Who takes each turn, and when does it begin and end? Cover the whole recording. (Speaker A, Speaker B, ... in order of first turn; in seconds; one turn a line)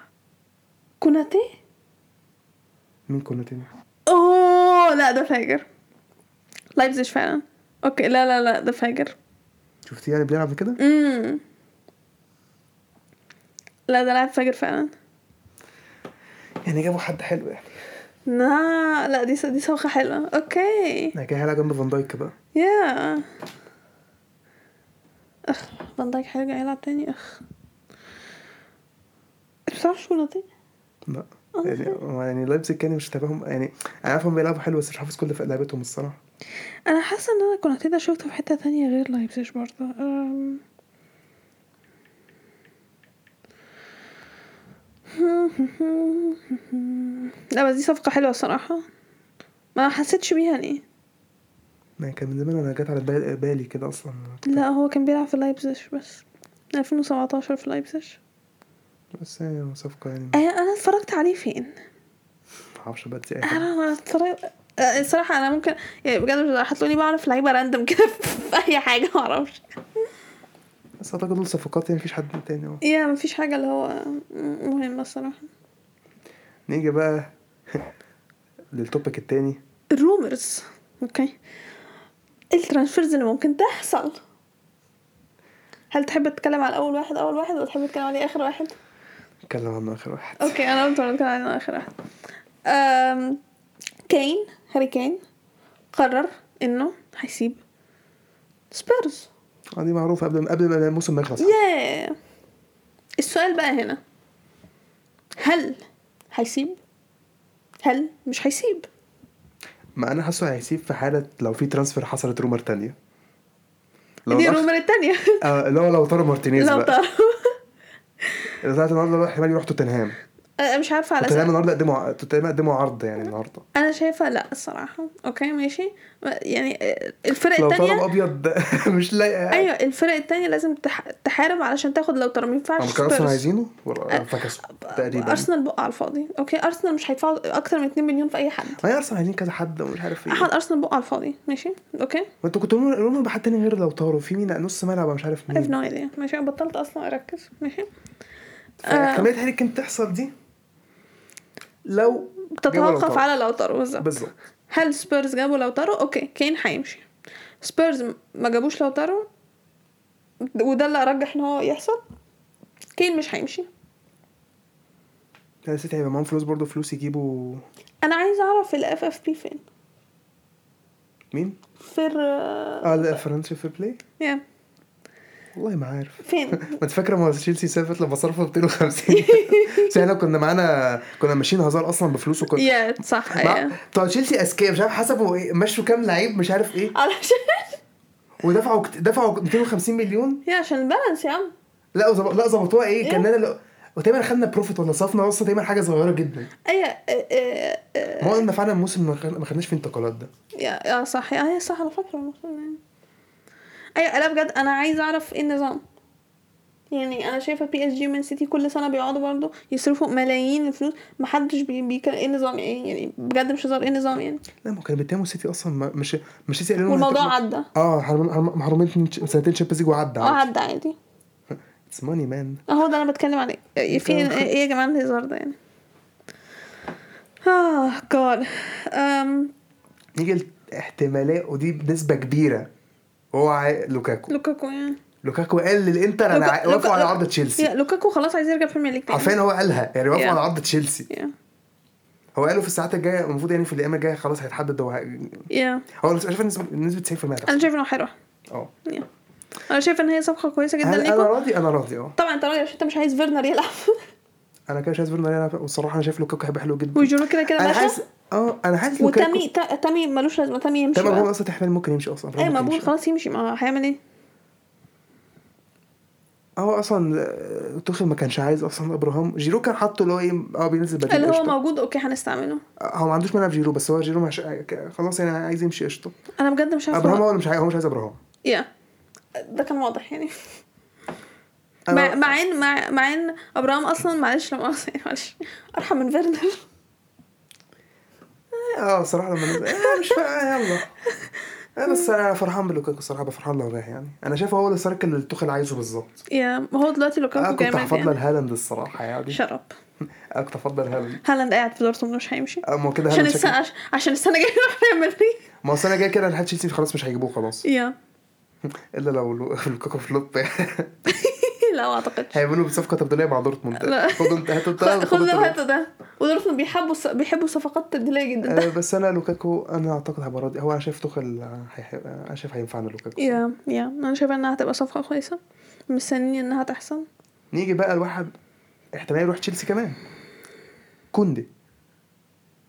Speaker A: 1.0-1.5
Speaker B: 3.1-3.7
Speaker A: 4.1-5.6
Speaker A: 6.8-9.2
Speaker B: 9.9-10.8
Speaker A: 10.8-11.4
Speaker A: 13.9-14.9
Speaker B: 16.6-17.8
Speaker A: 18.2-21.1
Speaker B: 21.1-22.3
Speaker A: 22.5-23.2
Speaker A: 25.5-27.4
Speaker A: 29.7-30.4
Speaker B: 31.1-36.2
Speaker A: 31.5-32.0
Speaker A: 36.9-40.6
Speaker A: 45.1-48.8
Speaker A: 49.8-50.8
Speaker B: 52.0-54.6
Speaker A: 54.5-58.2
Speaker B: 59.2-60.4
Speaker A: 60.3-61.7
Speaker B: 62.8-63.7
Speaker A: 63.4-69.6
Speaker B: 71.0-72.8
Speaker A: 72.8-75.5
Speaker B: 76.7-77.9
Speaker B: 78.7-79.6
Speaker A: 79.9-81.3
Speaker A: 82.5-84.2
Speaker A: 85.9-88.7
Speaker B: 89.5-90.6
Speaker A: 90.4-91.9
Speaker A: 92.7-93.4
Speaker A: 94.1-95.2
Speaker A: 95.9-97.6
Speaker A: 98.7-99.3
Speaker B: 99.8-101.5
Speaker A: 101.4-102.1
Speaker A: 103.2-104.0
Speaker A: 105.4-105.8
Speaker A: 106.3-106.8
Speaker A: 107.8-108.9
Speaker B: 110.0-113.0
Speaker B: 114.3-114.7
Speaker A: 114.3-115.4
Speaker B: 115.4-117.0
Speaker A: 116.6-117.6
Speaker B: 118.6-120.2
Speaker A: 120.6-121.5
Speaker B: 121.2-123.7
Speaker A: 123.7-128.1
Speaker B: 127.6-129.7
Speaker A: 129.5-133.4
Speaker B: 132.8-135.5
Speaker A: 134.1-138.8
Speaker B: 138.8-140.5
Speaker A: 140.3-142.3
Speaker B: 142.4-145.8
Speaker A: 145.5-147.9
Speaker B: 148.8-150.3
Speaker A: 148.8-149.3
Speaker B: 151.8-153.2
Speaker A: 152.5-154.1
Speaker B: 154.0-154.3
Speaker A: 154.7-157.1
Speaker A: 157.6-159.3
Speaker A: 160.4-162.0
Speaker A: 163.0-163.7
Speaker B: 165.7-167.6
Speaker A: 168.0-169.6
Speaker B: 171.3-171.6
Speaker A: 171.8-173.2
Speaker B: 172.8-174.0
Speaker B: 175.5-182.8
Speaker A: 176.2-176.8
Speaker A: 179.1-180.0
Speaker A: 182.5-183.8
Speaker B: 183.3-186.9
Speaker A: 186.9-187.8
Speaker B: 188.4-190.4
Speaker A: 190.4-191.5
Speaker B: 191.9-196.5
Speaker A: 196.7-198.4
Speaker B: 198.2-200.3
Speaker A: 200.6-202.8
Speaker A: 203.9-205.8
Speaker A: 206.9-214.4
Speaker B: 214.6-220.4
Speaker A: 216.9-217.7
Speaker A: 220.2-220.9
Speaker B: 221.5-222.6
Speaker A: 222.7-225.6
Speaker B: 223.9-224.5
Speaker A: 227.4-229.5
Speaker B: 230.1-232.7
Speaker B: 233.3-234.3
Speaker A: 234.3-235.0
Speaker B: 235.2-237.7
Speaker A: 236.3-239.3
Speaker B: 239.1-241.1
Speaker A: 240.1-240.4
Speaker B: 242.3-247.7
Speaker A: 245.5-245.8
Speaker A: 247.5-248.1
Speaker A: 249.7-251.3
Speaker B: 250.8-252.1
Speaker A: 252.2-254.1
Speaker B: 254.7-259.4
Speaker A: 256.9-258.0
Speaker A: 259.0-261.3
Speaker B: 260.9-262.9
Speaker A: 262.4-264.0
Speaker B: 266.6-271.6
Speaker A: 271.1-272.6
Speaker B: 272.8-276.1
Speaker A: 276.4-277.2
Speaker B: 276.9-278.2
Speaker A: 279.4-280.4
Speaker B: 281.9-282.3
Speaker A: 281.9-286.6
Speaker B: 288.5-290.9
Speaker A: 289.4-290.2
Speaker A: 291.1-291.3
Speaker B: 291.8-296.2
Speaker A: 296.3-298.1
Speaker B: 297.4-299.4
Speaker A: 299.3-299.7
Speaker B: 300.3-301.2
Speaker A: 301.2-305.4
Speaker B: 302.6-303.6
Speaker B: 305.6-307.6
Speaker A: 307.6-307.9
Speaker B: 308.6-310.9
Speaker A: 311.1-312.4
Speaker B: 312.3-315.6
Speaker A: 313.7-318.7
Speaker B: 318.5-323.4
Speaker A: 323.2-325.4
Speaker A: 325.9-327.1
Speaker B: 327.5-328.3
Speaker B: 328.9-330.0
Speaker B: 331.1-331.5